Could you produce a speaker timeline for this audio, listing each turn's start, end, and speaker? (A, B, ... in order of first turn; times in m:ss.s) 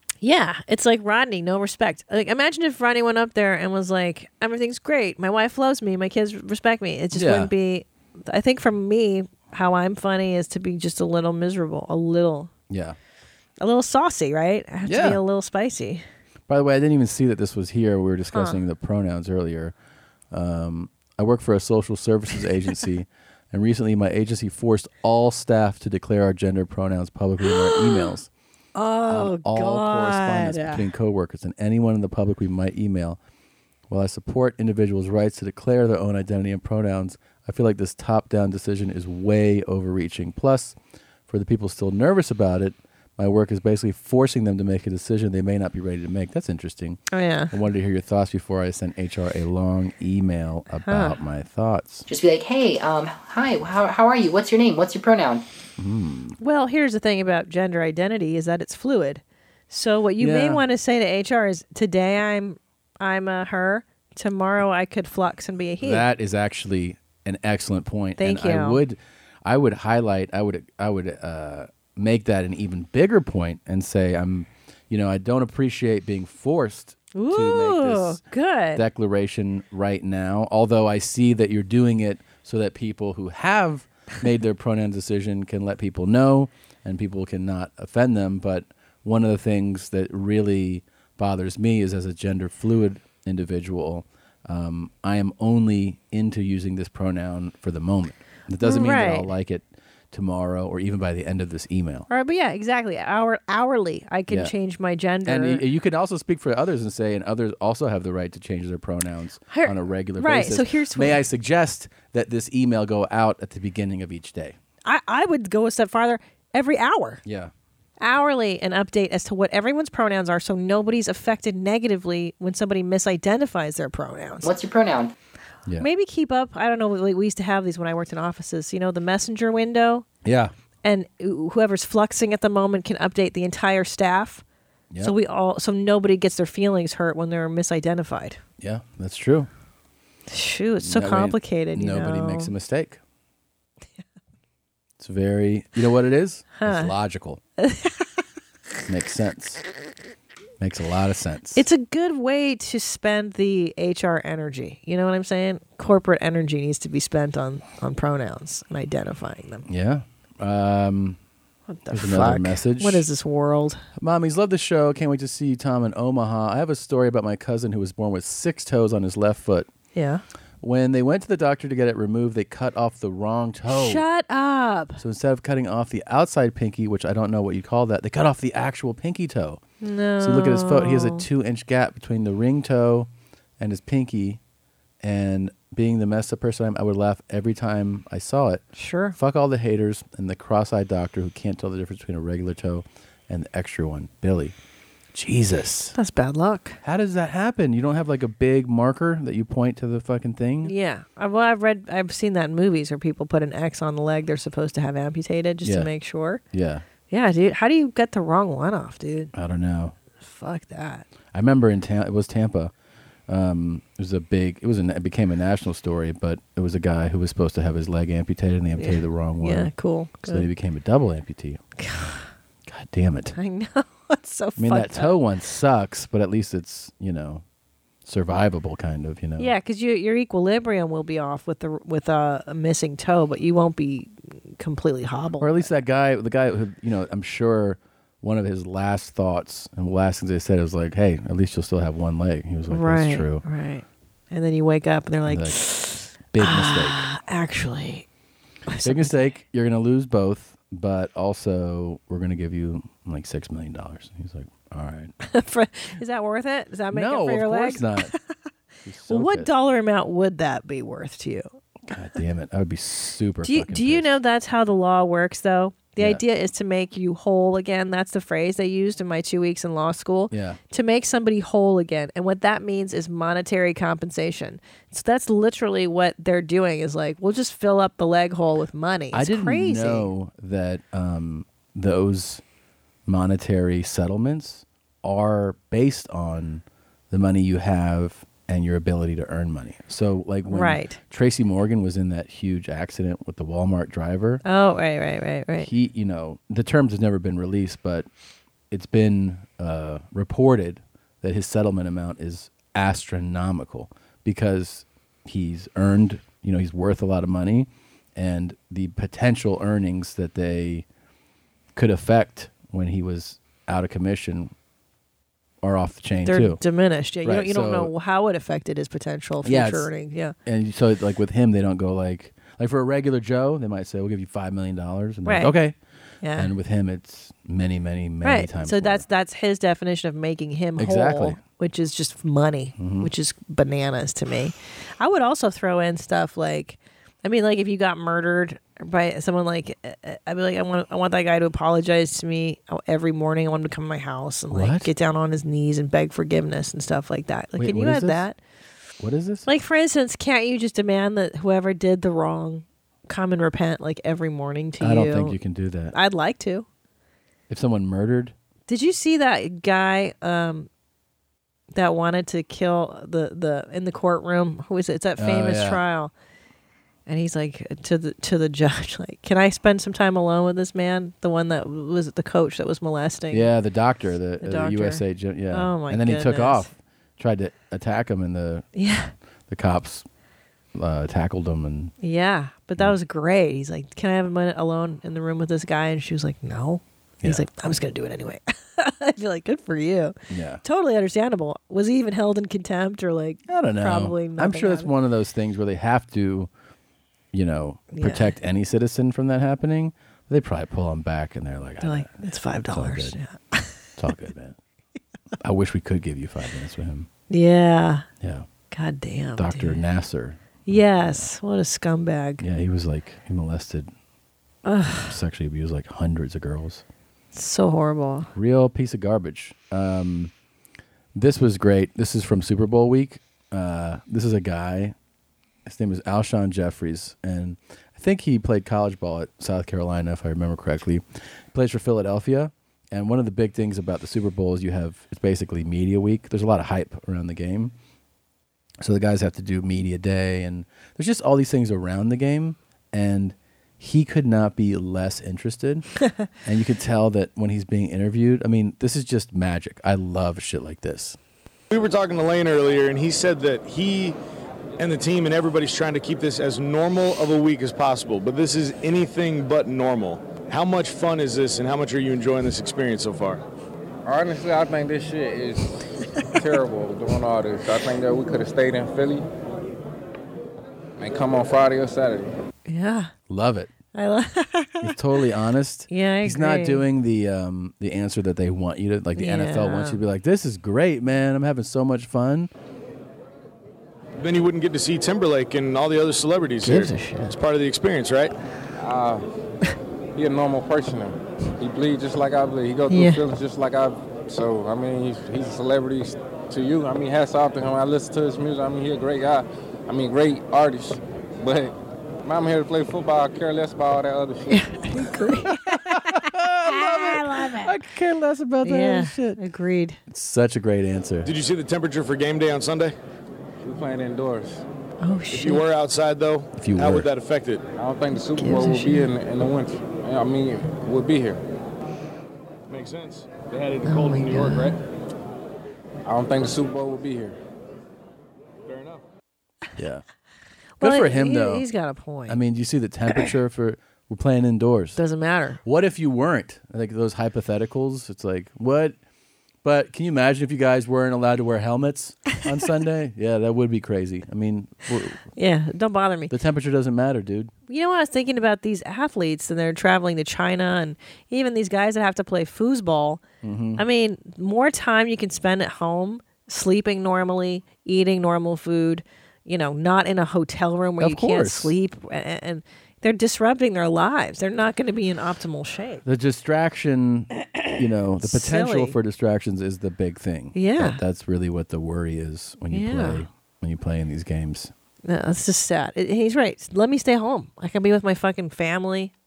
0:00.2-0:12.5 A
0:07.1-0:07.5 B
0:12.7-0:13.0 B
0:13.6-0:16.0 A
0:14.8-0:15.2 B
0:16.5-0:19.7 B
0:18.3-0:18.6 A
0:20.3-0:28.3 B
0:27.4-0:28.1 A
0:28.8-0:30.9 A
0:29.1-0:33.2 B
0:33.9-0:40.8 B
0:41.3-0:52.1 B
0:47.1-0:47.5 A
0:50.9-0:51.2 A
0:52.1-0:55.4 C
0:55.8-0:56.4 B
0:56.4-1:06.0 A
1:00.2-1:00.6 B
1:05.8-1:18.2 B
1:08.2-1:08.8 A
1:17.1-1:18.8 A
1:18.8-1:42.1 B
1:38.6-1:39.3 A
1:42.1-1:45.6 A
1:44.3-1:44.5 B
1:45.2-1:54.6 B
1:49.5-1:51.2 A
1:54.8-1:57.2 A
1:57.2-1:57.5 B
1:58.0-2:04.5 A
2:04.4-2:05.1 C
2:05.8-2:10.0 A
2:10.2-2:10.5 B
2:10.8-2:14.4 A
2:15.0-2:18.4 A
2:18.6-2:19.5 B
2:20.3-2:22.5 A
2:20.8-2:23.0 B
2:25.0-2:27.4 B
2:26.6-2:26.9 A
2:27.6-2:28.1 A
2:28.9-2:29.6 B
2:30.6-2:31.6 B
2:31.6-2:39.6 A
2:39.7-2:41.2 B
2:41.7-2:43.8 A
2:41.9-2:43.1 B
2:44.0-2:49.7 B
2:49.9-2:50.2 A
2:50.6-2:54.0 B
2:53.7-2:55.0 A
2:55.0-2:59.6 B
2:59.8-3:01.3 A
3:00.2-3:03.1 B
3:03.6-3:04.4 B
3:05.0-3:08.6 B
3:08.8-3:09.2 A
3:09.2-3:14.6 B
3:15.1-3:16.0 B
3:16.0-3:16.8 A
3:16.8-3:20.7 B
3:20.6-3:26.4 A
3:25.6-3:25.9 B
3:26.5-3:26.8 B
3:27.1-3:29.3 A
3:29.3-3:30.0 B
3:30.2-3:31.1 A
3:31.3-3:32.7 B
3:33.3-3:39.7 B
3:38.8-3:40.5 A
3:40.2-3:42.1 B
3:41.8-3:42.2 A
3:42.7-3:43.4 B
3:43.4-3:45.1 A
3:44.6-3:47.4 B
3:48.1-3:49.5 B
3:49.4-3:55.7 A
3:55.4-4:03.4 B
4:02.7-4:08.1 A
4:05.3-4:07.1 B
4:08.7-4:09.3 A
4:08.8-4:15.1 B
4:15.3-4:18.2 A
4:16.9-4:18.1 B
4:18.8-4:19.5 B
4:19.1-4:21.6 A
4:21.9-4:24.2 B
4:23.4-4:40.1 A
4:30.3-4:30.6 B
4:39.1-4:42.4 B
4:43.1-4:54.4 B
4:50.5-4:51.0 A
4:54.4-4:55.7 A
4:55.6-4:58.1 B
4:58.7-5:10.9 B
5:11.8-5:14.5 B
5:15.6-5:16.6 B
5:16.2-5:20.3 A
5:17.2-5:17.9 B
5:19.4-5:19.9 B
5:20.5-5:25.8 B
5:25.2-5:25.5 A
5:26.2-5:26.5 A
5:26.4-5:29.1 B
5:28.2-5:48.4 A
5:30.8-5:31.4 B
5:32.8-5:33.1 B
5:44.5-5:44.9 B
5:47.6-5:48.2 B
5:49.0-5:49.5 B
5:49.5-5:55.4 A
5:54.8-5:56.0 B
5:55.9-5:56.7 A
5:57.5-5:58.3 B
5:58.7-6:00.7 A
6:01.7-6:06.1 A
6:05.2-6:05.8 B
6:07.1-6:13.5 A
6:13.3-6:18.7 B
6:14.4-6:16.7 A
6:18.8-6:19.1 A
6:19.5-6:20.0 B
6:20.8-6:21.9 B
6:22.0-6:34.9 A
6:30.3-6:30.6 B
6:33.5-6:36.5 B
6:37.3-6:43.2 B
6:37.9-6:38.3 A
6:41.8-6:43.7 A
6:44.0-6:44.6 B
6:45.4-6:47.1 B
6:47.3-6:48.0 A
6:48.2-6:48.5 B
6:48.7-6:49.8 A
6:49.4-6:51.3 B
6:50.7-6:52.4 A
6:52.4-6:53.9 B
6:54.6-6:55.2 A
6:55.0-6:56.8 B
6:57.3-6:58.3 A
6:58.3-7:00.3 B
7:01.2-7:05.0 B
7:05.7-7:17.7 B
7:18.8-7:25.9 B
7:26.4-7:31.2 B
7:31.7-7:34.2 D
7:34.8-7:43.4 D
7:44.0-7:45.8 E
7:46.4-7:49.3 E
7:51.0-7:52.3 E
7:52.7-7:53.1 A
7:53.3-7:53.7 B
7:53.9-7:54.9 A
7:54.8-8:02.5 B
7:55.9-7:56.8 A
7:59.2-8:00.0 A
8:04.2-8:08.3 D
8:06.6-8:07.3 A
8:08.8-8:09.3 E
8:10.2-8:24.6 E
8:12.9-8:13.2 A
8:24.5-8:27.8 A
8:25.2-8:29.4 B
8:28.6-8:30.0 A
8:30.1-8:31.3 B
8:31.2-8:32.9 D
8:33.6-8:34.6 E
8:35.0-8:35.6 A
8:35.3-8:37.6 D
8:36.5-8:37.1 B
8:37.8-8:41.4 E
8:38.4-8:39.1 A
8:42.7-8:44.5 D
8:43.8-8:44.8 A
8:44.4-8:44.7 E
8:46.1-8:47.4 E
8:48.7-8:49.0 D
8:49.8-8:50.0 B
8:50.8-8:52.4 A
8:50.8-8:51.7 B
8:52.3-8:55.0 B
8:55.0-8:55.6 A
8:55.6-8:59.0 B
8:59.6-9:05.2 B
9:05.4-9:06.3 A
9:06.3-9:07.5 B
9:07.7-9:13.2 A
9:13.4-9:13.8 B
9:13.8-9:26.0 A
9:21.0-9:21.8 B
9:26.0-9:34.7 B
9:28.2-9:29.0 A
9:30.5-9:31.0 A
9:32.7-9:33.2 A
9:35.0-9:39.1 A